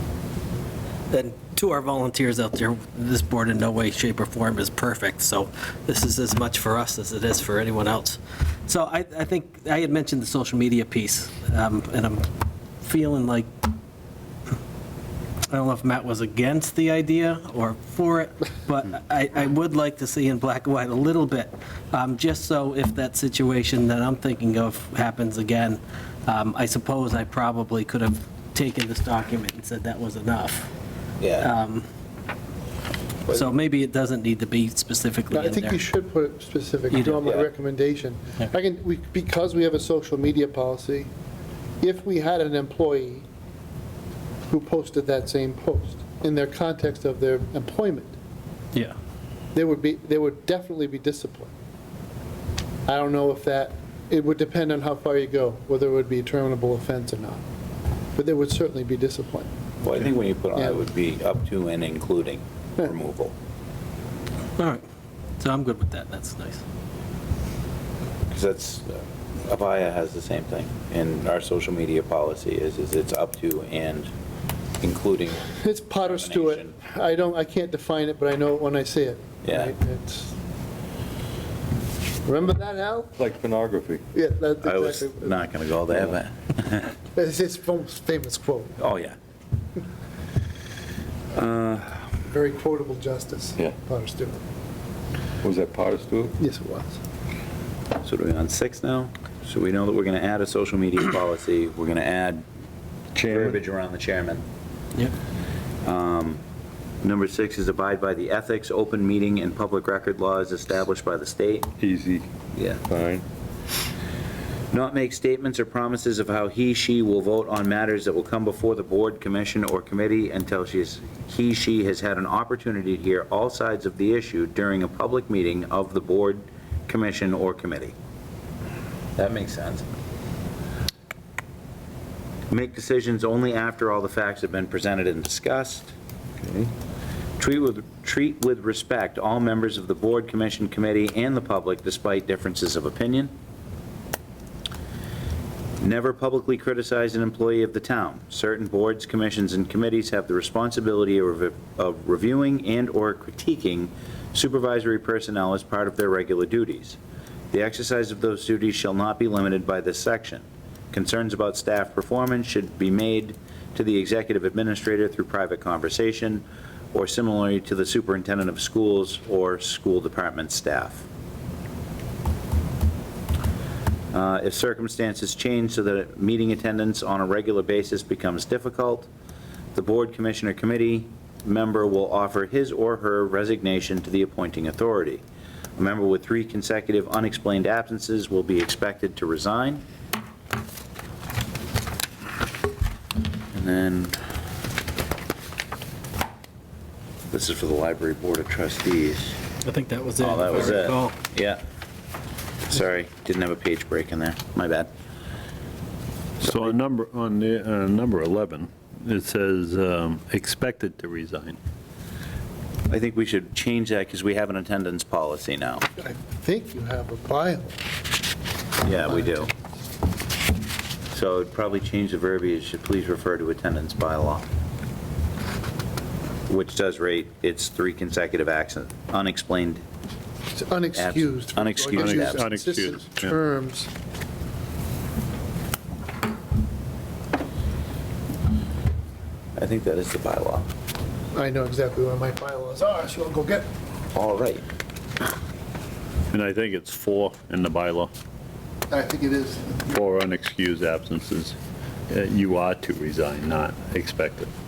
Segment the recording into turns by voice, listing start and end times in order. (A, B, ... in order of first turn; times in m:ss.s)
0:01.1-0:12.2 A
0:12.8-0:13.7 A
0:15.5-0:30.7 A
0:31.2-0:31.5 B
0:31.4-0:31.8 A
0:33.3-0:35.8 A
0:35.3-0:41.1 C
0:36.9-0:37.2 A
0:37.2-0:37.5 B
0:41.8-0:43.3 C
0:44.5-0:48.1 C
0:49.5-0:51.5 C
0:52.9-0:57.4 C
0:58.2-0:59.5 C
0:59.8-1:03.3 B
1:04.6-1:04.8 A
1:05.4-1:06.6 A
1:08.3-1:14.1 B
1:14.8-1:15.5 B
1:15.5-1:20.4 C
1:16.0-1:16.8 B
1:19.4-1:19.7 B
1:22.2-1:23.2 C
1:23.2-1:24.0 D
1:24.1-1:25.3 C
1:24.6-1:26.9 B
1:27.2-1:28.8 C
1:28.8-1:29.2 B
1:31.3-1:32.1 B
1:32.3-1:34.4 C
1:35.4-1:36.4 D
1:36.4-1:37.0 C
1:38.0-1:42.4 B
1:43.2-1:43.6 D
1:43.3-1:44.4 B
1:45.8-1:46.4 B
1:47.0-1:51.7 B
1:51.8-1:52.3 D
1:52.6-1:52.8 B
1:52.8-1:53.2 D
1:54.7-2:07.9 B
2:09.2-2:09.8 B
2:12.5-2:15.9 B
2:16.4-2:16.7 D
2:17.4-2:23.3 B
2:25.8-2:37.0 B
2:37.5-2:51.0 B
2:54.1-2:59.1 B
2:59.8-3:05.2 B
3:05.8-3:09.8 B
3:13.5-3:14.2 B
3:17.3-3:19.4 B
3:19.6-3:21.2 A
3:20.2-3:21.6 B
3:22.7-3:24.9 B
3:26.4-3:26.8 B
3:26.4-3:31.6 E
3:32.9-3:35.9 B
3:36.0-3:37.8 C
3:38.8-3:39.5 B
3:41.1-3:44.5 B
3:46.5-3:49.8 B
3:50.6-3:53.9 C
3:51.0-3:52.4 B
3:52.0-3:53.4 E
3:59.6-4:00.7 B
4:01.3-4:03.7 C
4:04.1-4:04.6 B
4:06.3-4:08.1 E
4:08.9-4:10.0 C
4:09.9-4:11.6 E
4:12.1-4:14.5 E